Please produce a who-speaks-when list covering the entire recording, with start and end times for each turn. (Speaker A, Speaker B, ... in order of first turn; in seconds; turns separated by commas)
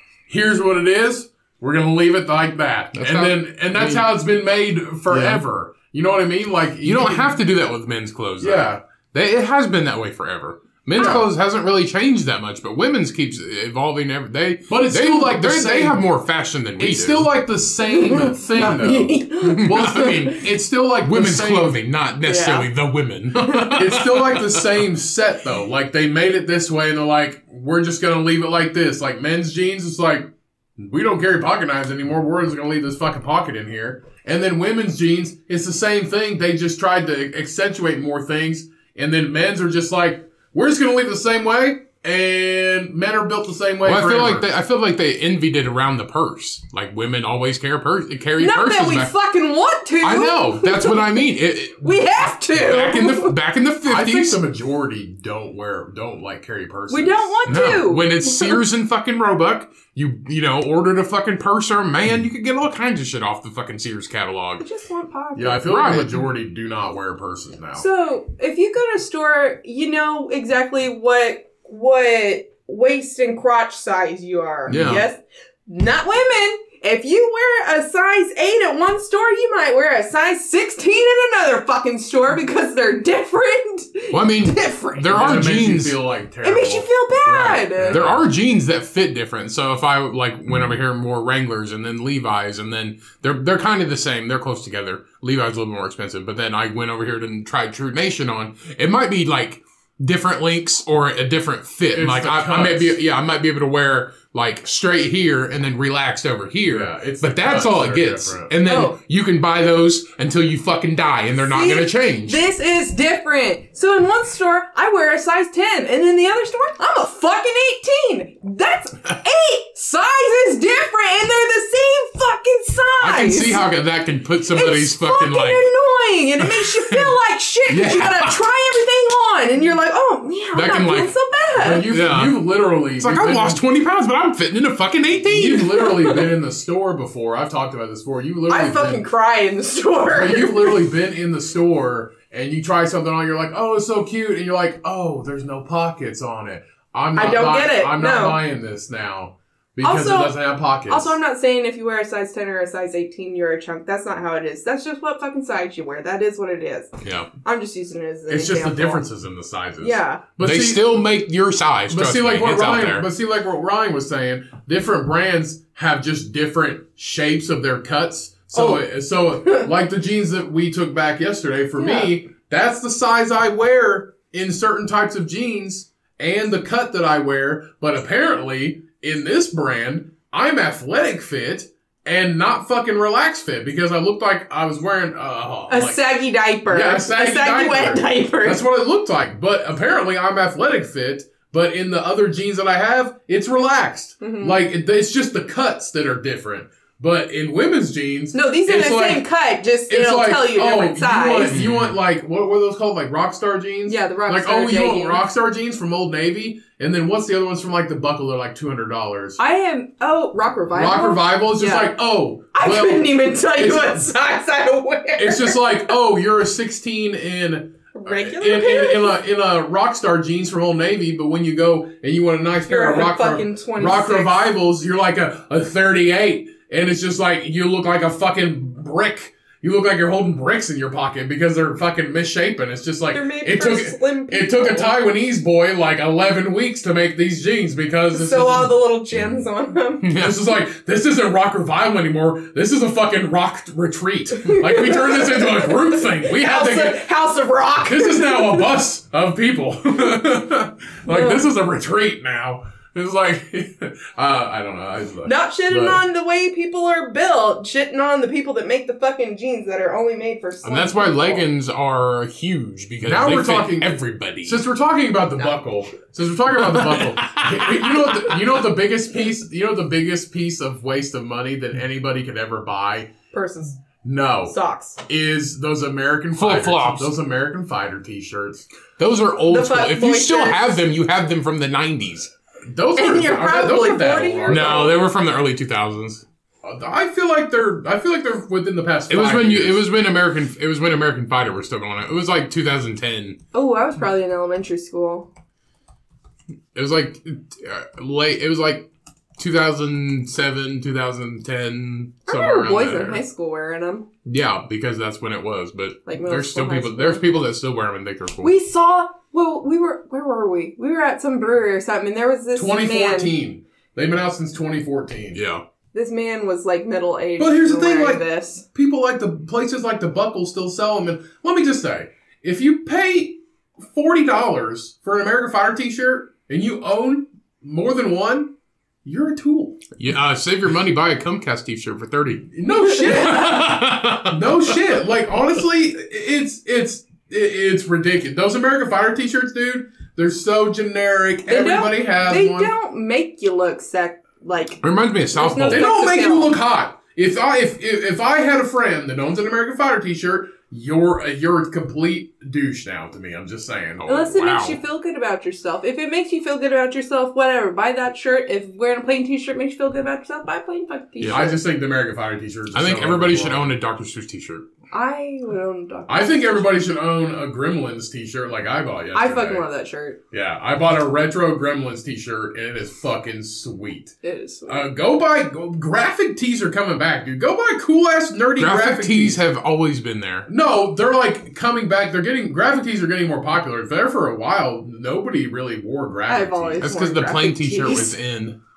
Speaker A: 0.3-7.4, Speaker B: 2.9-4.1, Speaker B: 5.1-5.4, Speaker B: 6.8-17.3, Speaker A: 8.4-8.8, Speaker A: 10.9-11.3, Speaker A: 14.7-16.0, Speaker A: 16.8-21.7, Speaker C: 17.9-20.1, Speaker B: 19.4-20.4, Speaker B: 21.0-24.8, Speaker C: 22.2-22.7, Speaker A: 23.7-44.5, Speaker B: 43.8-49.1, Speaker C: 48.4-51.0, Speaker B: 50.0-54.4, Speaker C: 51.8-53.3, Speaker A: 53.8-57.8, Speaker C: 56.9-58.6, Speaker B: 57.5-64.6, Speaker C: 64.6-65.7, Speaker A: 65.3-67.8, Speaker B: 65.6-66.2, Speaker C: 67.8-85.1, Speaker B: 74.7-75.0, Speaker B: 84.1-86.0, Speaker A: 85.1-88.3, Speaker C: 86.4-88.0, Speaker B: 87.9-112.4, Speaker A: 101.9-103.0, Speaker A: 106.7-108.5, Speaker C: 108.7-108.9, Speaker C: 111.5-123.7, Speaker B: 123.0-125.7, Speaker C: 124.5-131.9, Speaker B: 126.4-127.1, Speaker B: 127.7-128.4, Speaker B: 130.5-131.1, Speaker A: 131.6-133.6, Speaker B: 131.9-135.7, Speaker A: 135.2-139.0, Speaker C: 135.7-136.2, Speaker C: 138.5-140.8, Speaker A: 140.1-151.2, Speaker C: 147.2-148.4, Speaker C: 149.8-150.3, Speaker C: 150.9-156.9, Speaker B: 157.0-157.3, Speaker C: 157.4-159.0, Speaker A: 158.3-160.9, Speaker C: 159.8-160.2, Speaker B: 160.4-163.1, Speaker A: 161.9-199.2, Speaker C: 168.5-168.8, Speaker C: 171.8-172.1, Speaker C: 185.7-188.6, Speaker C: 194.2-194.6, Speaker C: 198.3-201.6, Speaker A: 199.9-209.4, Speaker B: 201.5-201.9, Speaker C: 203.9-205.2, Speaker C: 209.4-212.0, Speaker A: 210.7-214.1, Speaker C: 212.5-215.7, Speaker A: 215.2-238.8, Speaker C: 217.9-219.2, Speaker C: 222.7-224.5, Speaker C: 233.1-235.0, Speaker C: 238.1-240.1, Speaker B: 240.0-240.4, Speaker A: 240.1-247.0, Speaker C: 244.4-248.7, Speaker A: 247.8-256.0, Speaker C: 251.1-251.4, Speaker C: 255.2-261.4, Speaker B: 260.6-264.6, Speaker A: 263.0-273.1, Speaker B: 266.6-268.5, Speaker C: 273.3-273.8, Speaker A: 274.0-278.7, Speaker C: 274.4-275.0, Speaker B: 276.4-277.1, Speaker B: 279.0-282.3, Speaker C: 279.5-280.8, Speaker A: 282.6-284.9, Speaker C: 282.9-285.0, Speaker B: 284.5-286.2, Speaker A: 286.6-289.8, Speaker B: 289.1-293.4, Speaker C: 293.5-295.3, Speaker B: 296.7-303.2, Speaker C: 302.3-304.1, Speaker B: 304.2-308.5, Speaker C: 306.1-307.2, Speaker C: 308.4-313.3, Speaker A: 312.6-315.4, Speaker B: 315.3-315.6, Speaker C: 315.9-318.6, Speaker A: 317.4-328.5, Speaker A: 329.0-329.9, Speaker B: 330.0-334.8, Speaker A: 332.5-342.7, Speaker C: 332.7-333.6, Speaker C: 341.5-346.6, Speaker B: 344.8-345.9, Speaker A: 345.6-354.2, Speaker B: 354.0-354.8, Speaker C: 354.0-361.6, Speaker B: 361.2-361.5, Speaker A: 361.2-363.7, Speaker B: 362.7-364.6, Speaker C: 364.9-366.8, Speaker A: 366.1-369.6, Speaker C: 369.1-370.2, Speaker A: 370.3-374.1, Speaker C: 374.2-374.9, Speaker A: 374.7-379.4, Speaker B: 378.6-380.5, Speaker A: 380.5-386.9, Speaker C: 386.3-388.1, Speaker B: 386.8-388.6